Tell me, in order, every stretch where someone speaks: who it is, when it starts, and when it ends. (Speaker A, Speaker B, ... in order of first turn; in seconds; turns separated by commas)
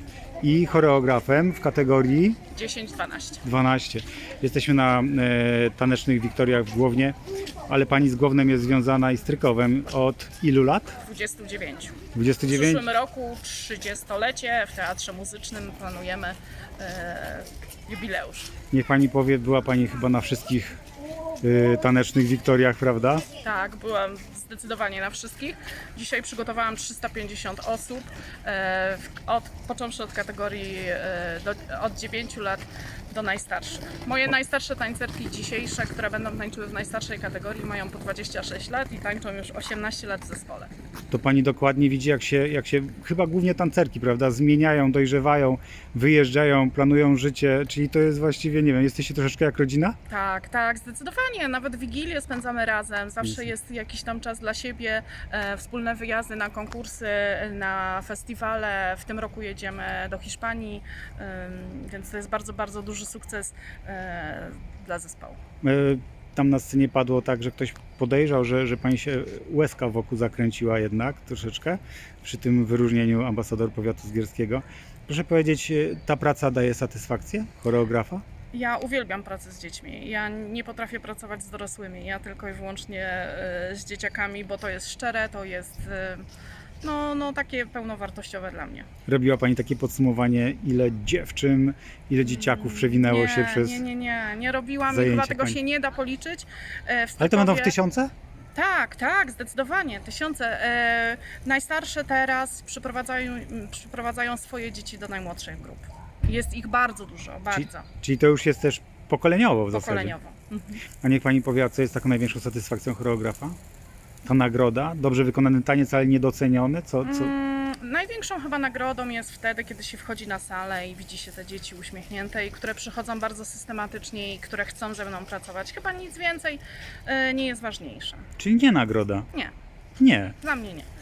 Speaker A: 0.4-2.4, Speaker B: 2.5-3.4, Speaker A: 3.4-7.2, Speaker A: 7.7-11.0, Speaker B: 11.0-12.0, Speaker A: 12.1-12.9, Speaker B: 12.5-18.5, Speaker A: 18.7-20.8, Speaker A: 21.4-23.2, Speaker B: 23.4-40.7, Speaker A: 41.1-50.0, Speaker B: 50.1-65.4, Speaker A: 65.6-78.2, Speaker B: 78.5-86.3, Speaker B: 86.8-88.9, Speaker A: 89.1-93.8, Speaker B: 92.2-97.8, Speaker A: 94.9-95.6, Speaker A: 97.2-98.1, Speaker B: 98.5-107.9, Speaker A: 107.5-110.2, Speaker B: 109.7-110.8, Speaker A: 111.0-113.6, Speaker A: 114.2-117.3, Speaker B: 117.0-128.2, Speaker A: 128.4-129.3, Speaker A: 130.0-130.4, Speaker B: 130.4-130.9